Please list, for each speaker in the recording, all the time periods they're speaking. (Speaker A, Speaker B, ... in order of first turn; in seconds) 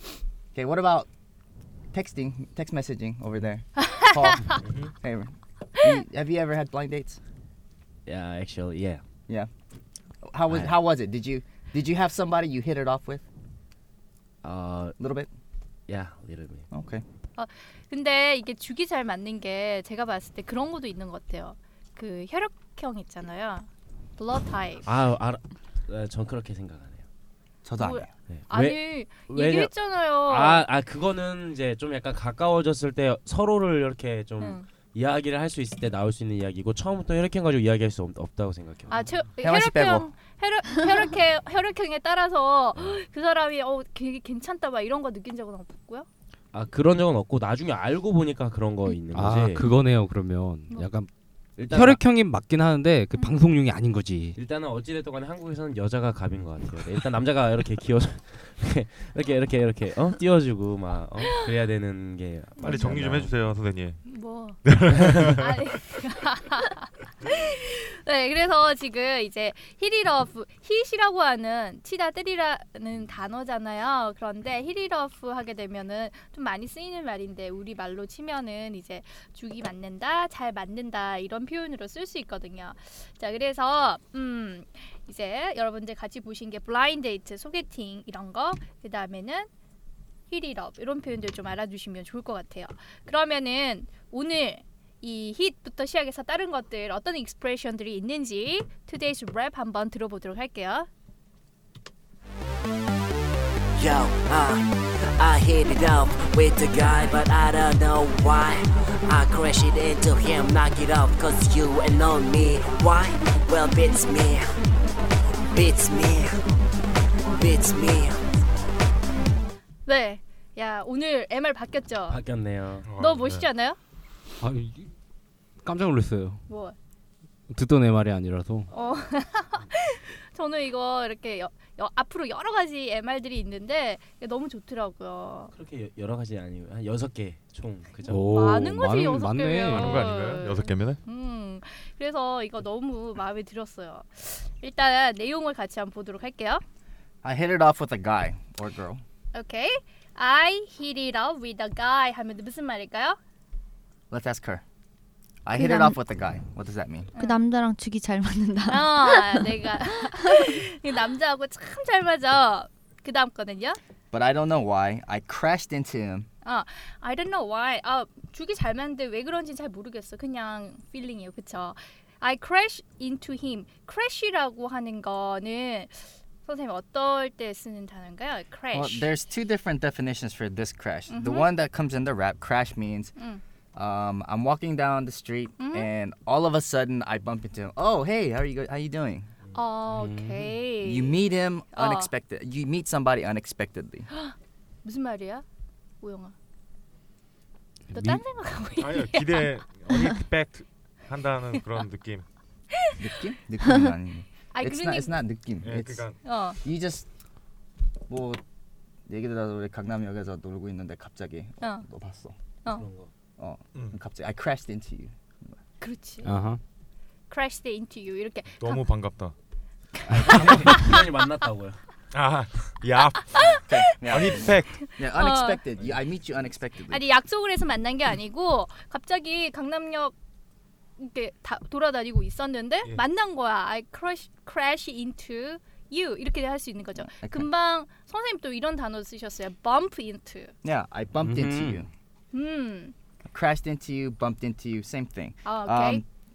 Speaker A: 0.5-1.1, 1.9-7.2, 10.2-13.2, 15.0-15.3, 16.7-17.0, 27.6-28.1, 39.4-40.1, 147.2-149.0, 154.1-154.6, 155.4-157.1, 164.1-166.3, 178.7-183.1, 183.7-189.3, 190.8-194.1, 203.0-207.1, 208.1-208.4, 209.1-212.3, 213.4-215.5, 223.7-227.0, 237.2-237.5, 240.6-241.9, 243.3-246.0
Speaker B: 3.8-4.6, 17.4-24.9, 27.8-30.6, 34.4-34.7, 38.9-46.1, 64.0-64.6, 65.2-89.5, 90.3-100.9, 119.8-122.2, 123.0-123.8, 126.5-126.8, 128.7-135.5, 138.2-146.6, 149.3-153.2, 157.2-157.4, 158.7-163.8, 166.4-179.1, 181.1-181.5, 185.6-185.9, 189.5-192.1, 194.1-195.4, 196.0-196.3, 197.9-200.0, 204.5-205.2, 206.2-206.6, 211.6-211.8, 215.8-216.3, 217.3-218.8, 220.0-221.0, 223.3-223.6, 224.8-225.6, 226.9-230.1, 231.0-240.5, 242.3-242.9, 245.4-246.0
Speaker C: 4.6-4.9, 8.1-9.0, 10.5-10.8, 14.4-15.0, 15.9-16.7, 24.9-27.0, 28.3-29.7, 30.2-39.0, 46.5-49.6, 51.6-52.0, 54.4-63.3, 122.1-122.9, 135.5-138.5, 212.7-213.1, 220.2-221.8
Speaker D: 49.1-51.1, 51.7-54.4, 124.4-124.9, 125.6-126.4, 127.5-128.7, 138.0-140.1, 189.9-190.6, 197.9-198.2, 216.2-216.6, 220.1-220.9, 241.2-241.8
Speaker E: 62.6-64.0, 64.6-65.6, 122.8-123.5, 139.7-141.0, 198.8-202.2, 205.6-206.2, 218.6-219.3, 222.1-224.8
Speaker F: 103.8-114.5, 115.5-116.4, 117.3-118.3
Speaker G: 155.5-156.0, 157.2-159.6, 160.2-160.5